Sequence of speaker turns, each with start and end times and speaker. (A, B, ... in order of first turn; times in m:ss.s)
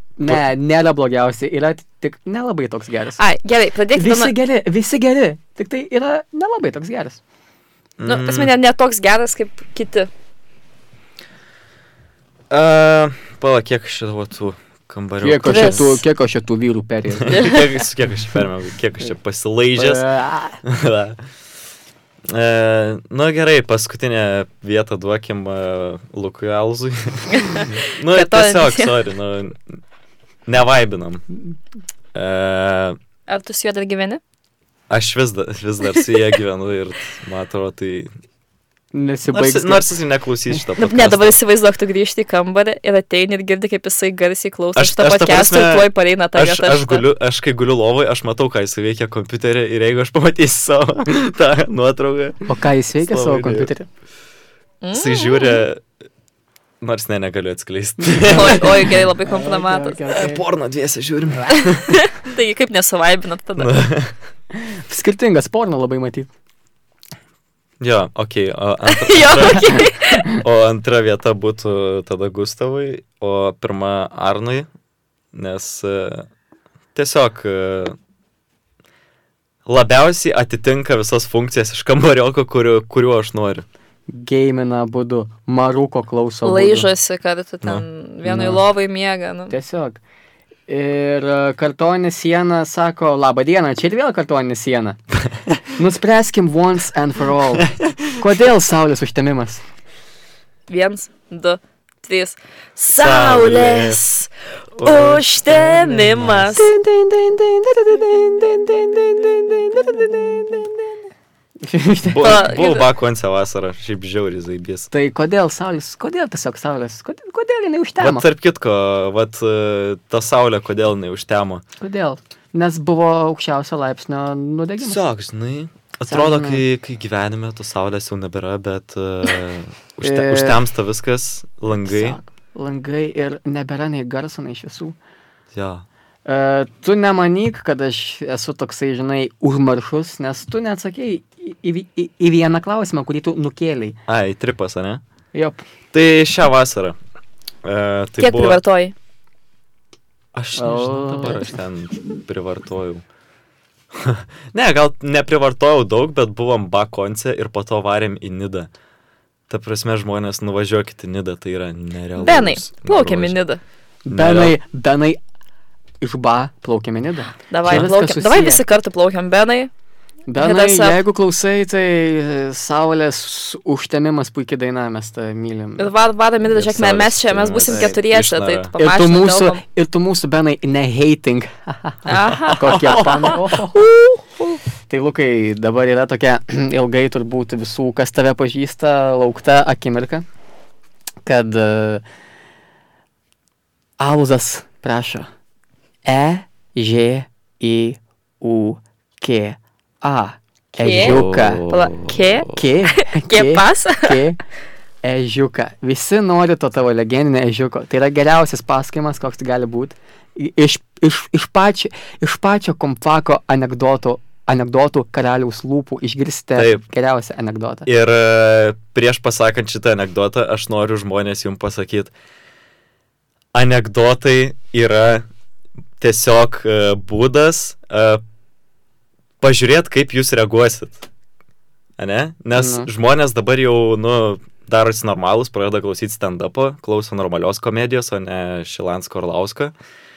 0:00.2-0:03.2 A
0:03.2-0:04.3 B
0:03.9-0:07.2 A
0:08.0-0:08.5 C
0:08.0-0:10.1 B
0:12.5-0:16.0 C
0:15.2-0:17.4 A
0:15.4-0:15.9 B
0:17.2-0:20.0 C
0:17.3-0:17.7 B
0:19.8-0:20.6 A
0:20.6-0:21.2 C
0:22.3-0:29.8 C
0:27.3-0:28.9 B
0:30.4-0:31.2 C
0:32.1-0:33.0 C
0:33.3-0:34.2 B
0:34.9-0:38.1 C
0:38.9-0:40.0 A
0:39.3-0:41.4 C
0:40.8-0:47.0 B
0:44.8-0:53.7 C
0:52.5-0:53.9 A
0:54.8-0:55.6 B
0:54.9-0:55.8 C
0:56.8-0:59.0 C
0:58.0-1:00.4 A
0:58.3-1:00.1 B
1:00.1-1:02.0 C
1:01.5-1:03.8 B
1:03.6-1:04.1 C
1:04.5-1:06.3 A
1:07.8-1:14.7 C
1:08.9-1:10.3 B
1:15.3-1:16.3 C
1:16.9-1:18.0 C
1:19.6-1:23.6 C
1:24.1-1:26.9 A
1:26.4-1:29.5 B
1:27.6-1:28.6 C
1:28.3-1:28.6 A
1:29.5-1:30.0 A
1:30.7-1:35.0 A
1:35.8-1:39.6 A
1:37.6-1:38.0 C
1:40.7-1:44.3 B
1:42.9-1:44.0 C
1:44.8-1:46.4 C
1:44.8-1:46.7 B
1:45.9-1:50.9 A
1:51.6-1:52.4 A
1:52.0-1:54.9 C
1:52.2-1:52.8 B
1:54.9-1:58.2 A
1:58.0-2:01.6 C
2:01.8-2:05.0 A
2:04.8-2:12.2 C
2:06.1-2:06.6 A
2:10.0-2:10.6 A
2:11.7-2:15.0 A
2:15.5-2:15.8 C
2:16.2-2:24.0 A
2:24.1-2:25.0 C
2:25.3-2:25.6 A
2:25.9-2:27.0 C
2:27.6-2:28.6 C
2:28.2-2:28.9 B
2:30.3-2:33.0 C
2:30.6-2:31.5 A
2:33.9-2:38.7 C
2:39.5-2:43.4 C
2:42.2-2:43.6 B
2:44.0-2:45.2 A
2:44.1-2:44.6 C
2:46.0-2:48.6 A
2:47.5-2:49.7 B
2:50.3-2:55.9 A
2:50.4-2:51.0 B
2:55.8-2:59.6 B
2:56.4-2:58.7 C
2:57.7-2:57.9 A
2:58.8-3:03.8 A
3:02.0-3:04.6 B
3:02.7-3:03.3 C
3:04.9-3:10.2 A
3:11.2-3:12.0 A
3:14.0-3:15.3 A
3:16.0-3:21.6 A
3:20.8-3:24.2 B
3:20.8-3:22.5 C
3:22.5-3:24.4 A
3:25.0-3:37.9 A
3:36.6-3:36.8 C
3:37.9-3:42.1 C
3:43.5-3:45.3 C
3:46.0-3:48.2 C
3:49.4-3:51.0 C
3:52.0-3:59.7 C
3:52.5-3:52.9 A